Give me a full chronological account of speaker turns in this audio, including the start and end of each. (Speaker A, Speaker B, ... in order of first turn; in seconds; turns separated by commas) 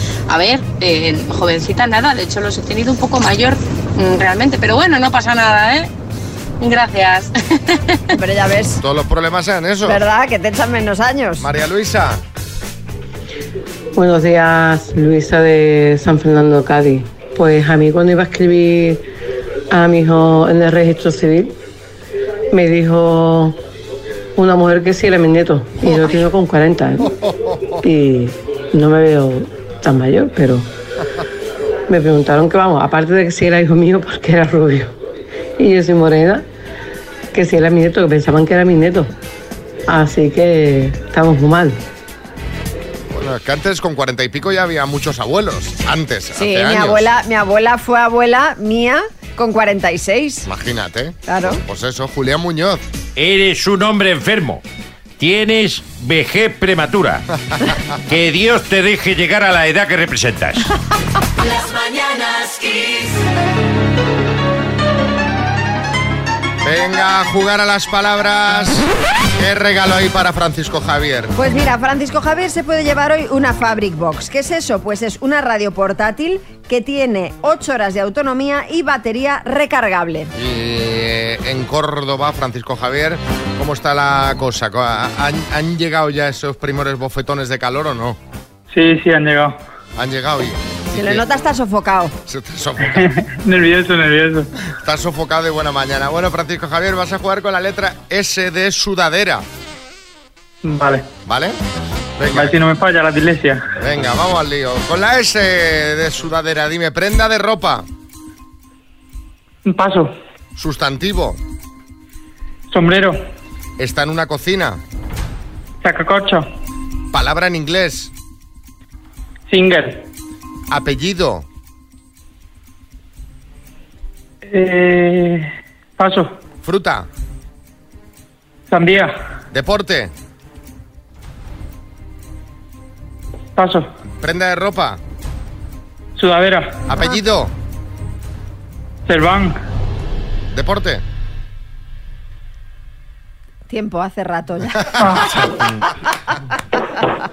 Speaker A: 0.3-5.9, Speaker A: 6.6-7.3, Speaker B: 8.1-8.8, Speaker C: 8.8-10.0, Speaker B: 9.8-11.5, Speaker C: 11.4-12.2, Speaker D: 13.9-19.0, Speaker D: 19.7-21.5, Speaker D: 22.5-23.6, Speaker D: 24.4-27.1, Speaker C: 27.1-27.8, Speaker D: 27.8-30.7, Speaker D: 31.9-34.9, Speaker D: 35.6-36.4, Speaker D: 37.3-39.1, Speaker D: 39.9-41.8, Speaker C: 43.1-47.1, Speaker B: 46.4-50.5, Speaker C: 50.5-52.8, Speaker B: 51.3-51.6, Speaker E: 53.1-54.6, Speaker E: 55.2-57.2, Speaker E: 58.1-60.7, Speaker C: 66.6-68.8, Speaker C: 69.4-71.3, Speaker B: 71.3-80.3, Speaker C: 80.3-88.2, Speaker F: 88.7-89.6, Speaker C: 90.0-91.2, Speaker B: 90.9-92.1, Speaker C: 92.3-93.1, Speaker F: 92.9-94.5, Speaker C: 94.8-99.4, Speaker F: 100.6-101.1, Speaker C: 101.2-101.6, Speaker C: 102.2-102.6, Speaker F: 102.3-103.6, Speaker C: 103.8-107.9, Speaker F: 109.7-110.1, Speaker C: 110.5-111.4, Speaker F: 112.7-113.2, Speaker C: 113.8-114.8, Speaker F: 115.8-116.5, Speaker C: 117.1-118.1, Speaker F: 119.5-120.0, Speaker C: 120.7-121.5, Speaker F: 124.4-126.3, Speaker C: 126.6-127.1, Speaker F: 128.7-129.1, Speaker C: 129.5-130.1, Speaker F: 133.6-133.9, Speaker C: 134.2-135.0, Speaker F: 136.2-136.8, Speaker C: 136.9-137.5, Speaker F: 139.1-139.6, Speaker C: 140.5-141.0, Speaker B: 143.7-144.9, Speaker C: 144.8-145.5, Speaker E: 145.5-145.8